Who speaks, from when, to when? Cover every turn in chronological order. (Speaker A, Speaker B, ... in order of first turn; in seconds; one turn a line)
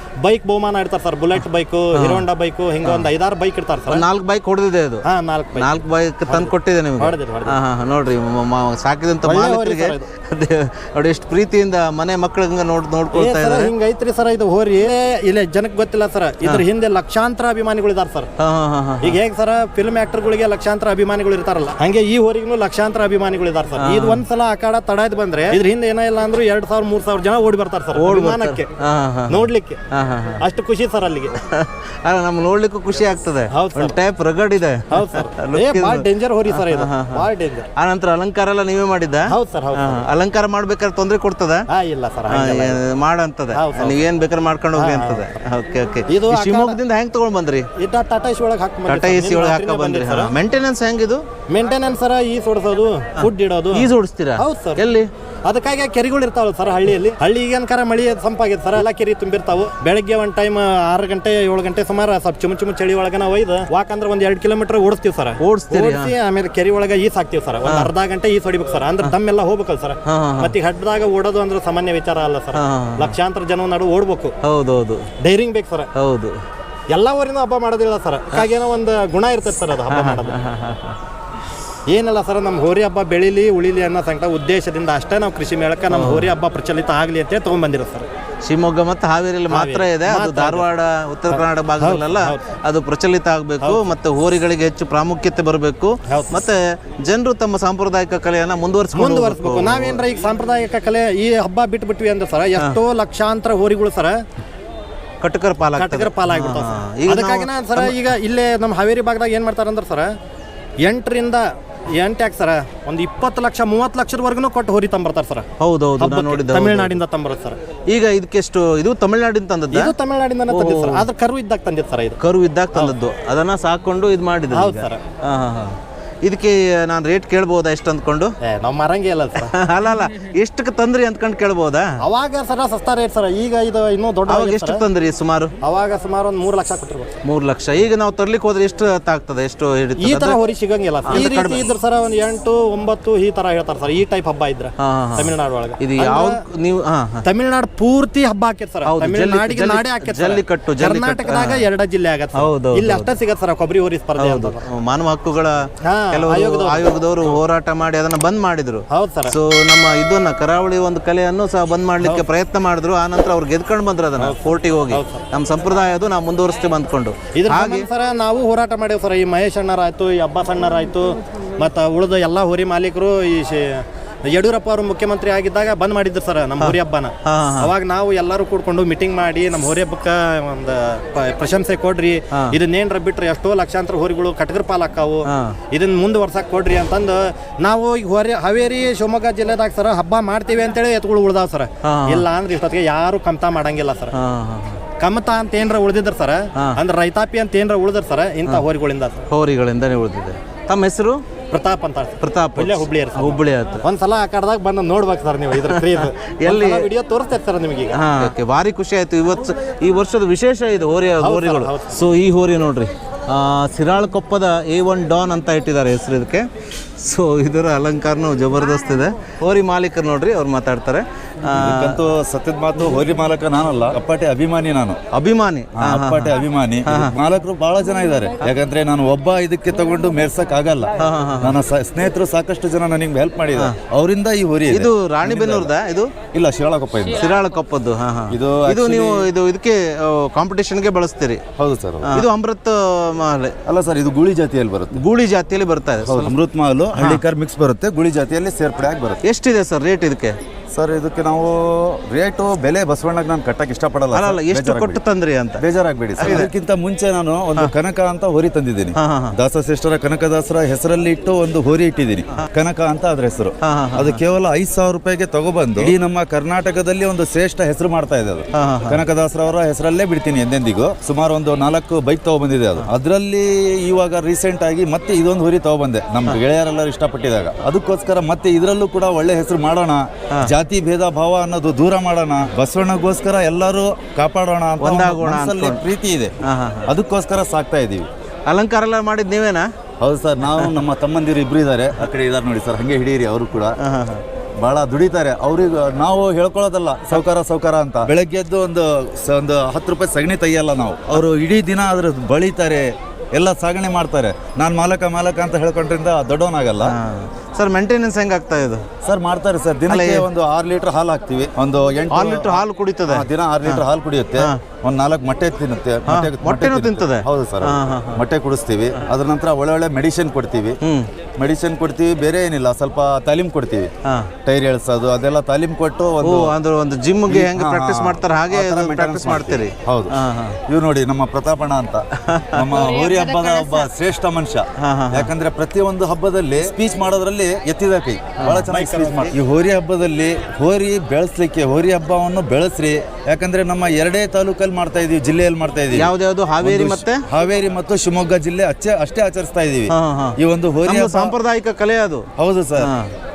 Speaker A: 0.2-4.0
Speaker B: 1.9-2.2
Speaker B: 3.9-5.0
Speaker A: 5.0-7.5
Speaker B: 5.5-13.7
Speaker A: 9.2-10.1
Speaker A: 13.1-18.3
Speaker B: 18.4-19.2
Speaker A: 19.0-28.7
Speaker B: 23.8-24.2
Speaker B: 27.9-30.4
Speaker A: 29.3-29.8
Speaker A: 30.4-31.3
Speaker B: 31.5-37.2
Speaker A: 33.5-34.0
Speaker A: 34.9-37.7
Speaker B: 37.8-41.6
Speaker A: 39.3-40.0
Speaker A: 41.7-42.8
Speaker B: 42.3-47.7
Speaker A: 43.5-44.0
Speaker A: 44.7-45.2
Speaker A: 46.1-46.8
Speaker A: 47.8-50.3
Speaker B: 48.9-51.2
Speaker A: 51.5-54.8
Speaker B: 53.2-55.1
Speaker A: 55.5-74.3
Speaker B: 65.4-66.1
Speaker B: 67.7-67.9
Speaker B: 70.0-70.5
Speaker B: 72.5-73.1
Speaker B: 74.4-75.0
Speaker A: 75.2-75.9
Speaker B: 75.9-76.3
Speaker A: 76.9-80.3
Speaker B: 79.9-81.0
Speaker A: 81.9-88.0
Speaker B: 85.9-86.3
Speaker B: 88.4-100.0
Speaker A: 89.5-90.7
Speaker A: 91.3-92.4
Speaker A: 93.6-93.9
Speaker A: 96.1-96.4
Speaker A: 98.9-104.2
Speaker B: 105.2-108.0
Speaker A: 105.8-110.1
Speaker A: 110.8-115.5
Speaker B: 115.6-117.0
Speaker A: 116.0-117.6
Speaker B: 117.9-119.9
Speaker A: 119.7-122.2
Speaker B: 120.5-121.0
Speaker B: 122.2-128.3
Speaker A: 124.5-125.0
Speaker A: 128.4-129.5
Speaker B: 129.5-131.9
Speaker A: 132.0-134.8
Speaker B: 134.3-135.5
Speaker A: 135.6-137.1
Speaker B: 137.2-140.4
Speaker A: 140.0-146.4
Speaker B: 141.1-141.6
Speaker B: 144.8-147.2
Speaker A: 147.2-154.6
Speaker B: 148.8-151.7
Speaker B: 152.3-153.1
Speaker B: 154.2-167.9
Speaker A: 155.8-156.9
Speaker A: 158.9-159.3
Speaker A: 162.0-162.2
Speaker A: 164.2-165.2
Speaker A: 167.3-194.1
Speaker B: 176.6-177.7
Speaker B: 185.3-185.6
Speaker B: 191.8-192.2
Speaker B: 194.1-194.8
Speaker A: 195.0-199.2
Speaker B: 199.3-201.2
Speaker A: 201.5-208.0
Speaker B: 202.2-203.8
Speaker B: 205.6-206.9
Speaker B: 207.9-216.4
Speaker A: 211.2-211.9
Speaker B: 217.0-222.0
Speaker C: 221.5-225.0
Speaker B: 225.1-226.3
Speaker C: 225.8-235.7
Speaker B: 226.9-227.2
Speaker B: 231.0-231.5
Speaker B: 234.7-236.1
Speaker C: 236.3-237.3
Speaker B: 237.2-241.4
Speaker C: 238.3-239.3
Speaker C: 241.6-242.2
Speaker B: 242.0-243.6
Speaker C: 243.7-245.0
Speaker B: 245.0-246.3
Speaker C: 246.0-249.2
Speaker B: 246.9-247.2
Speaker B: 249.2-250.3
Speaker C: 250.7-255.0
Speaker B: 254.1-255.6
Speaker C: 255.6-288.1
Speaker B: 256.2-256.5
Speaker B: 258.9-259.3
Speaker B: 263.6-264.2
Speaker B: 268.5-269.0
Speaker B: 284.8-285.8
Speaker B: 286.4-286.9
Speaker B: 288.4-289.7
Speaker C: 290.0-293.7
Speaker B: 293.8-294.2
Speaker C: 294.6-306.9
Speaker B: 306.8-308.8
Speaker C: 309.0-320.8
Speaker B: 309.9-310.2
Speaker B: 312.1-313.8
Speaker B: 316.1-318.2
Speaker B: 320.8-321.1
Speaker C: 321.4-323.9
Speaker B: 324.0-324.3
Speaker C: 324.4-326.5
Speaker B: 326.2-330.6
Speaker C: 327.3-330.1
Speaker C: 330.7-351.3
Speaker B: 332.3-332.7
Speaker B: 334.8-335.3
Speaker B: 338.4-339.1
Speaker B: 345.9-347.2
Speaker B: 349.9-352.3
Speaker C: 352.4-352.9
Speaker B: 352.8-353.1